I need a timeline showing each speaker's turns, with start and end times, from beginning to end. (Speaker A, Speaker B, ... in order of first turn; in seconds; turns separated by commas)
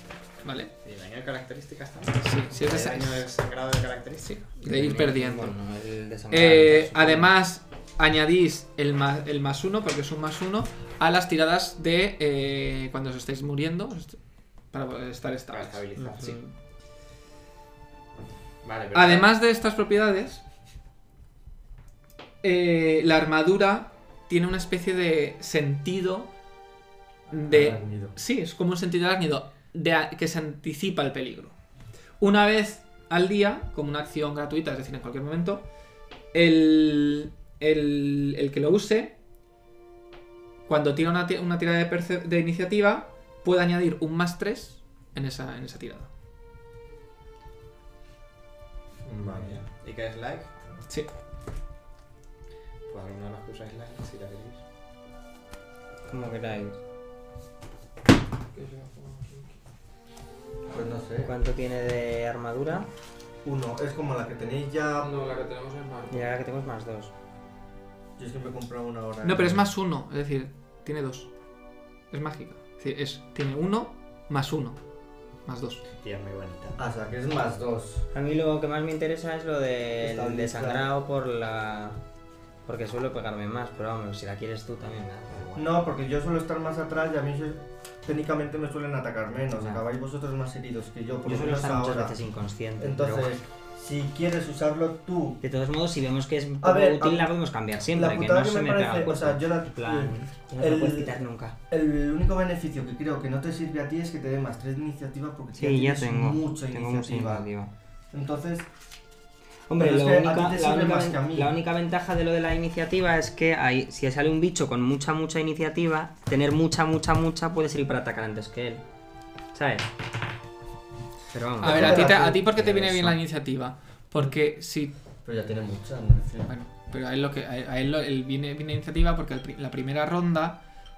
Speaker A: 0.4-0.7, Speaker B: 0.8-4.4, Speaker A: 2.2-3.3, Speaker A: 4.3-5.5, Speaker C: 4.6-7.3, Speaker A: 6.3-14.2, Speaker A: 14.7-16.4, Speaker B: 15.5-16.4, Speaker C: 16.0-16.5, Speaker B: 18.6-19.3, Speaker A: 18.9-20.4, Speaker A: 22.4-26.3, Speaker A: 27.3-31.5, Speaker D: 27.5-28.1, Speaker A: 32.2-35.7, Speaker A: 36.3-39.1, Speaker A: 40.7-46.1, Speaker D: 49.0-49.6, Speaker B: 49.2-50.5, Speaker B: 52.9-54.6, Speaker C: 56.1-56.8, Speaker E: 58.5-59.6, Speaker D: 60.7-61.3, Speaker C: 61.2-62.9, Speaker D: 63.4-65.1, Speaker E: 65.0-66.4, Speaker C: 66.1-67.1, Speaker D: 68.2-69.6, Speaker A: 69.2-71.3, Speaker A: 72.1-74.8, Speaker A: 75.5-75.8, Speaker B: 76.0-76.8, Speaker D: 76.8-78.0, Speaker C: 78.1-82.0, Speaker D: 80.0-80.9, Speaker C: 82.7-85.7, Speaker D: 85.6-92.2, Speaker C: 89.6-89.8, Speaker C: 91.2-93.3, Speaker D: 92.8-95.4, Speaker C: 95.4-101.6, Speaker D: 96.6-97.3, Speaker D: 97.9-101.2, Speaker D: 101.7-107.5, Speaker C: 105.6-107.7, Speaker D: 108.1-108.7, Speaker C: 109.7-118.8, Speaker D: 109.8-111.6, Speaker C: 119.5-119.9, Speaker C: 121.3-123.2, Speaker D: 121.6-122.8, Speaker A: 121.6-124.9, Speaker D: 125.2-126.5, Speaker A: 126.5-130.6